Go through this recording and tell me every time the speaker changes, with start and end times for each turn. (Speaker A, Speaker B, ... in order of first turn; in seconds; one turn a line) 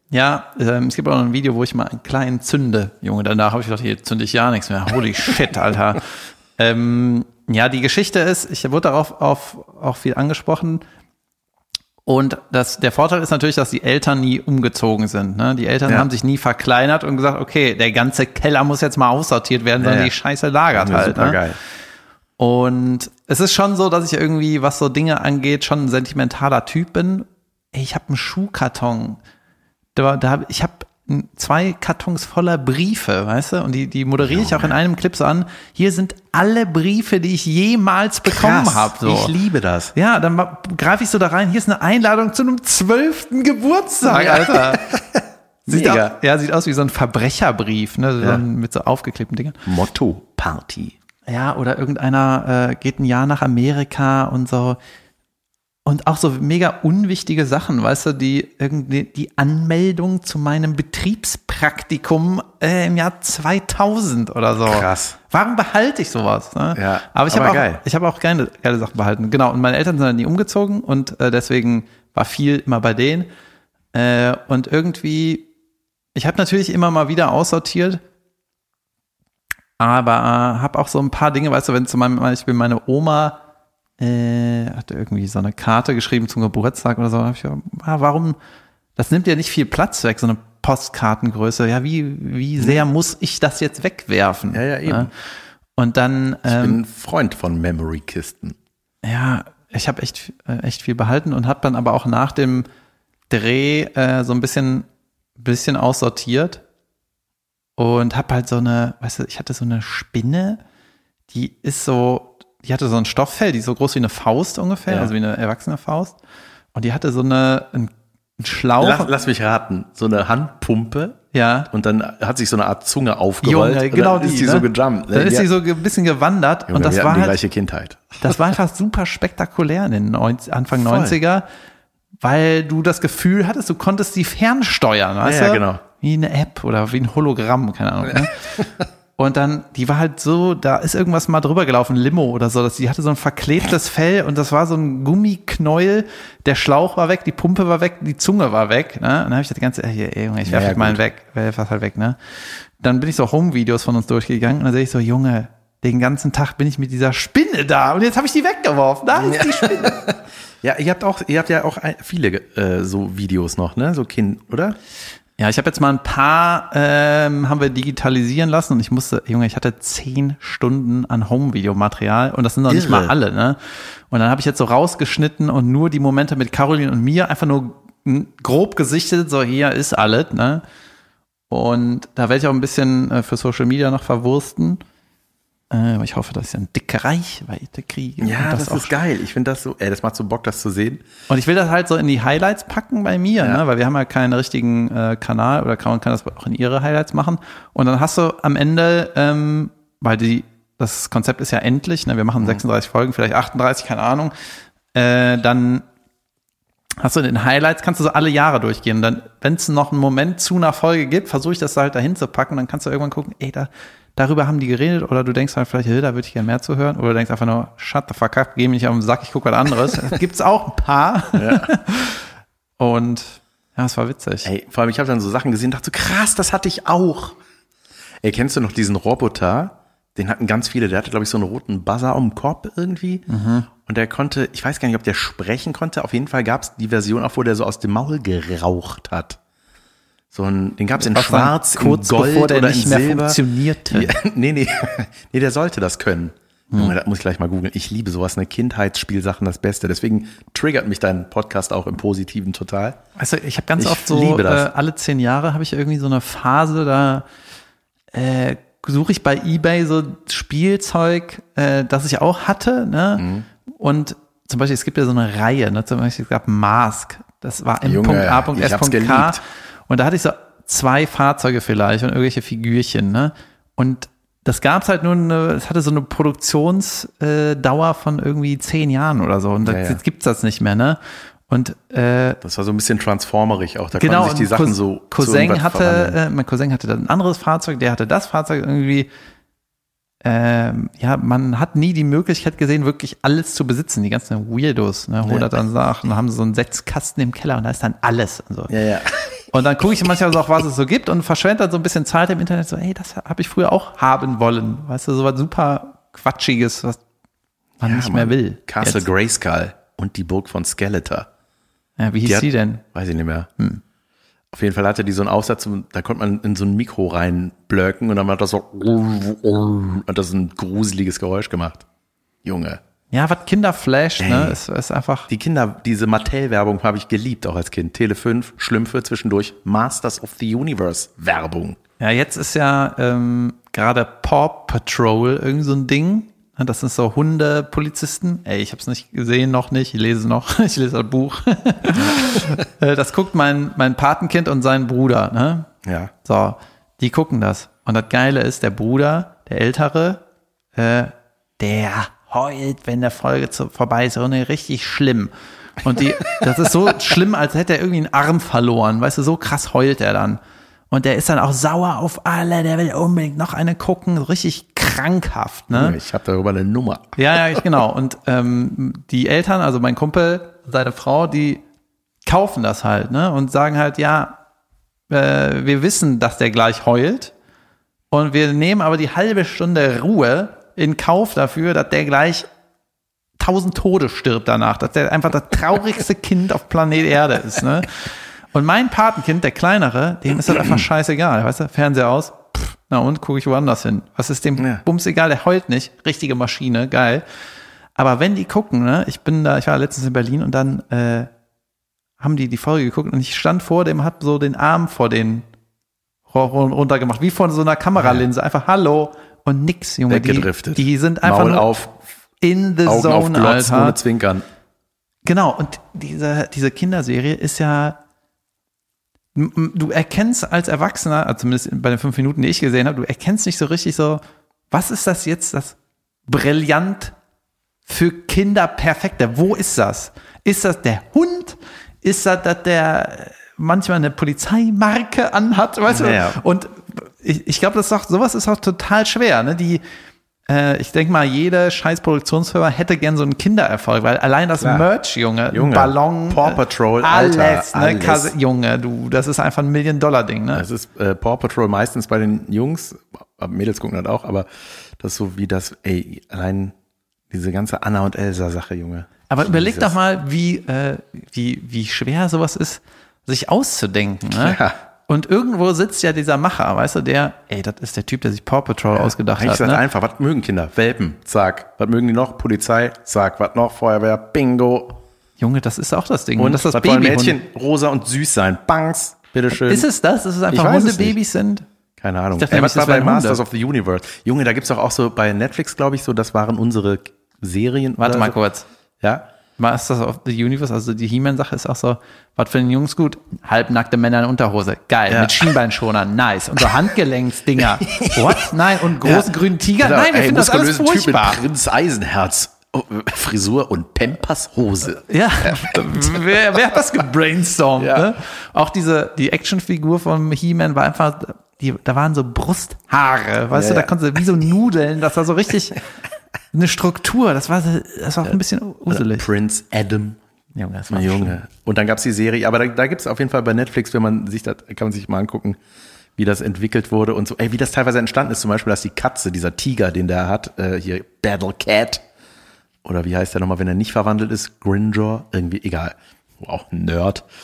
Speaker A: 0.1-10.8
Speaker A: 12.1-21.4
Speaker B: 19.8-20.1
Speaker B: 20.7-21.6
Speaker A: 22.4-29.2
Speaker A: 29.9-39.3
Speaker B: 34.3-34.7
Speaker B: 38.3-39.9
Speaker A: 39.9-44.8
Speaker B: 44.0-46.1
Speaker A: 45.7-49.6
Speaker B: 49.6-51.0
Speaker A: 51.3-54.8
Speaker A: 55.9-73.3
Speaker B: 64.7-65.2
Speaker B: 66.8-67.8
Speaker A: 73.9-75.5
Speaker A: 76.1-78.0
Speaker A: 79.8-83.4
Speaker A: 84.0-88.3
Speaker A: 89.0-95.1
Speaker B: 92.6-92.8
Speaker B: 94.5-95.1
Speaker A: 95.8-96.8
Speaker B: 96.5-98.6
Speaker A: 99.0-102.7
Speaker A: 103.3-104.8
Speaker A: 105.4-106.6
Speaker A: 107.8-110.6
Speaker A: 111.3-116.2
Speaker A: 116.7-119.1
Speaker B: 118.8-125.5
Speaker A: 121.3-121.7
Speaker A: 123.4-127.4
Speaker B: 126.7-128.4
Speaker A: 128.2-131.4
Speaker B: 130.7-131.2
Speaker A: 132.2-138.6
Speaker B: 135.2-135.8
Speaker A: 139.2-160.1
Speaker B: 150.4-151.0
Speaker B: 159.2-164.8
Speaker A: 165.4-180.6
Speaker B: 172.7-173.1
Speaker A: 181.5-184.8
Speaker A: 185.7-188.9
Speaker B: 188.2-191.0
Speaker A: 191.3-204.3
Speaker A: 204.9-205.8
Speaker A: 207.0-222.2
Speaker B: 221.3-221.7
Speaker A: 222.8-224.5
Speaker B: 224.4-227.4
Speaker B: 228.2-233.2
Speaker A: 233.3-233.7
Speaker B: 233.8-239.4
Speaker B: 240.3-253.0
Speaker A: 241.0-244.1
Speaker A: 253.2-257.2
Speaker B: 253.8-254.7
Speaker A: 258.1-282.4
Speaker B: 263.2-263.4
Speaker B: 267.8-269.4
Speaker B: 279.6-280.0
Speaker B: 282.4-286.2
Speaker A: 283.9-289.1
Speaker A: 290.2-298.7
Speaker B: 298.7-299.4
Speaker A: 299.5-307.0
Speaker B: 307.8-311.3
Speaker A: 307.8-309.1
Speaker A: 312.0-312.8
Speaker B: 312.2-313.5
Speaker B: 314.5-321.8
Speaker B: 322.4-322.8
Speaker A: 323.1-325.3
Speaker B: 324.2-324.6
Speaker B: 325.3-331.8
Speaker A: 332.0-345.7
Speaker B: 342.0-342.6
Speaker B: 345.8-346.1
Speaker A: 346.2-350.2
Speaker A: 350.8-360.4
Speaker A: 360.9-366.0
Speaker B: 365.7-367.6
Speaker A: 367.1-371.6
Speaker A: 372.2-374.4
Speaker A: 375.1-377.3
Speaker A: 378.1-382.4
Speaker A: 383.4-397.2
Speaker B: 394.6-394.8
Speaker A: 397.9-401.3
Speaker A: 402.2-405.4
Speaker A: 406.3-411.7
Speaker B: 410.1-412.0
Speaker A: 412.4-414.0
Speaker B: 412.8-414.4
Speaker A: 415.2-418.0
Speaker A: 419.3-425.8
Speaker A: 426.3-427.1
Speaker A: 427.9-439.8
Speaker B: 435.9-436.4
Speaker A: 440.5-450.6
Speaker B: 444.6-444.9
Speaker B: 445.5-448.3
Speaker B: 450.5-456.7
Speaker B: 457.3-459.9
Speaker A: 459.3-469.8
Speaker B: 464.3-464.7
Speaker B: 469.0-475.0
Speaker A: 475.4-477.4
Speaker B: 476.4-479.9
Speaker A: 479.5-481.6
Speaker B: 480.5-481.1
Speaker B: 482.0-488.3
Speaker A: 482.4-483.4
Speaker A: 488.0-488.7
Speaker B: 489.0-489.2
Speaker A: 489.6-501.4
Speaker B: 495.1-495.4
Speaker B: 497.9-506.6
Speaker A: 505.1-515.8
Speaker B: 507.8-508.1
Speaker B: 513.5-513.9
Speaker A: 516.5-519.3
Speaker B: 518.9-520.2
Speaker A: 520.5-521.4
Speaker B: 520.9-525.6
Speaker B: 526.2-532.0
Speaker B: 532.8-537.3